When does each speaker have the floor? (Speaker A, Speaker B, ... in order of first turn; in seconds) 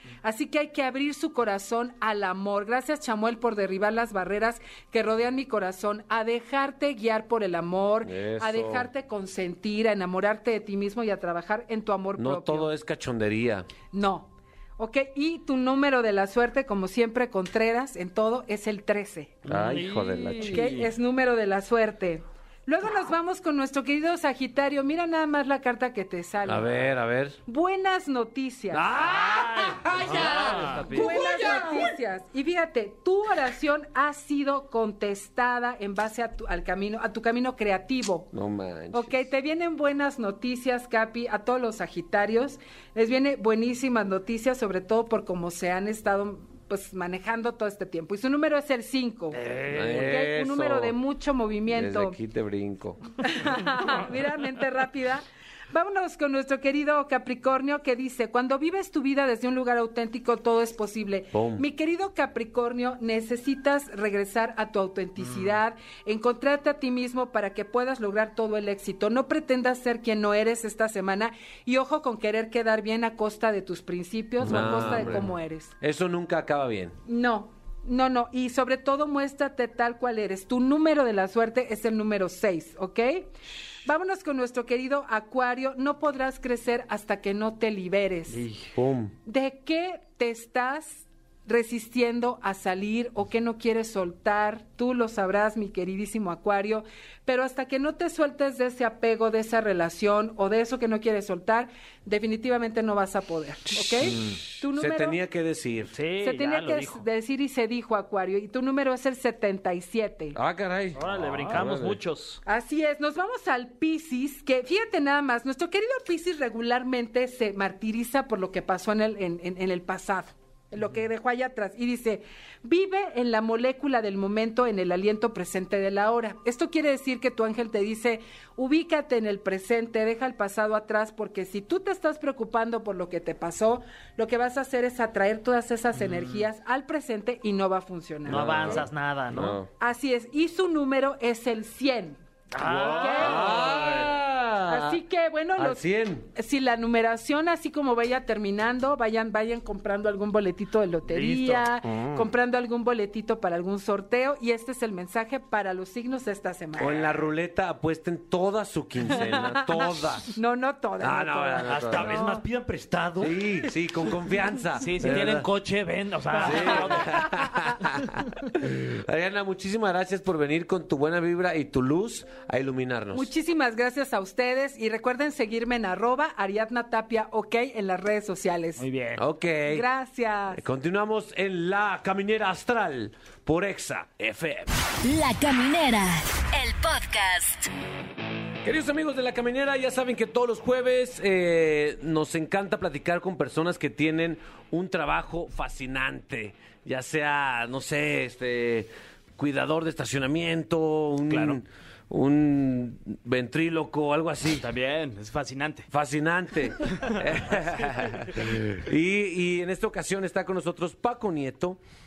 Speaker A: 0.2-12.7, 13.9-19.4, 20.4-26.7, 27.4-28.9, 30.7-38.3, 38.9-52.2, 53.2-75.7, 77.1-83.3, 83.8-88.4, 89.2-105.2, 106.2-110.4, 112.5-138.9, 139.8-142.2, 142.8-143.6, 144.7-157.1, 159.1-162.4, 173.1-178.8, 179.6-180.6
Speaker B: 8.0-8.8, 12.2-13.7, 19.4-20.8, 26.4-27.4, 28.7-31.9, 38.3-39.2, 49.6-51.0, 51.7-53.0, 61.3-61.6, 74.4-77.0, 88.7-89.1, 104.0-106.0, 110.3-112.0, 138.3-139.7, 142.6-145.0, 145.6-146.3, 156.8-160.3, 161.0-162.2, 163.2-165.5, 166.3-173.3, 179.2-179.8, 180.5-184.7, 188.6-204.7, 205.9-211.8
Speaker C: 19.5-20.6, 30.0-30.6, 151.8-152.2, 161.7-163.4
Speaker D: 19.7-20.6, 29.2-31.1, 49.3-50.2, 88.3-88.6, 105.9-107.0, 111.0-112.4, 136.0-136.4, 138.3-139.6, 142.5-144.1, 151.0-151.6, 164.8-167.1, 178.8-179.2, 204.5-205.9
Speaker E: 185.0-187.7